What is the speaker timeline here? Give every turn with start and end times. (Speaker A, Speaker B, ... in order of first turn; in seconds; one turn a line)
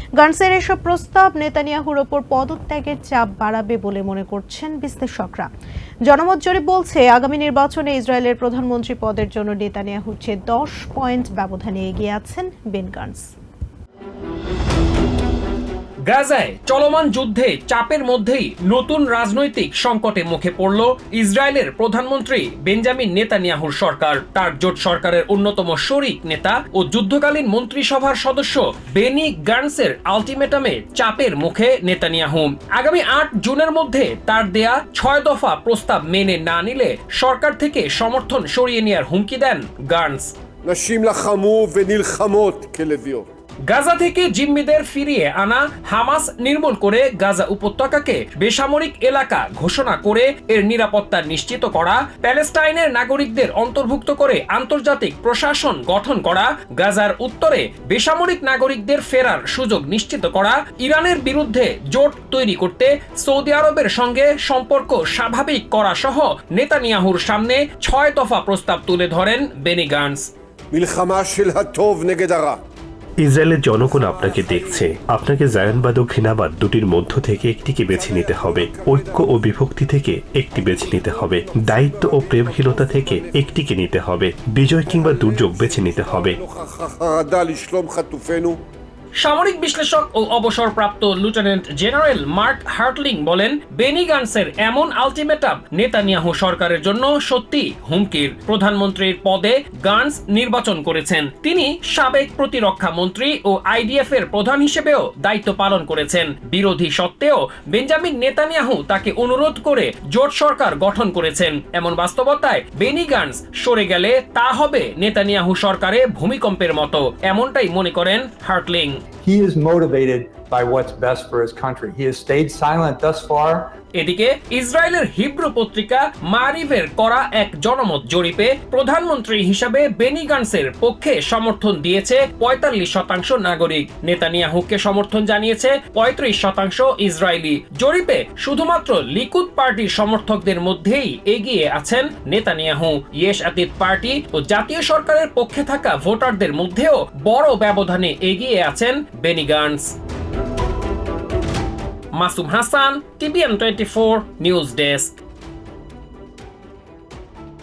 Speaker A: 0.2-5.5
Speaker A: 6.1-13.3
Speaker B: 16.1-40.3
Speaker C: 40.6-43.3
Speaker B: 43.7-70.3
Speaker C: 70.7-72.6
Speaker D: 73.2-86.4
Speaker C: 73.9-74.8
Speaker C: 77.9-79.3
Speaker C: 80.5-83.3
Speaker C: 84.9-88.6
Speaker B: 89.2-119.0
Speaker E: 119.2-123.7
Speaker B: 124.0-150.0
Speaker B: 152.2-155.2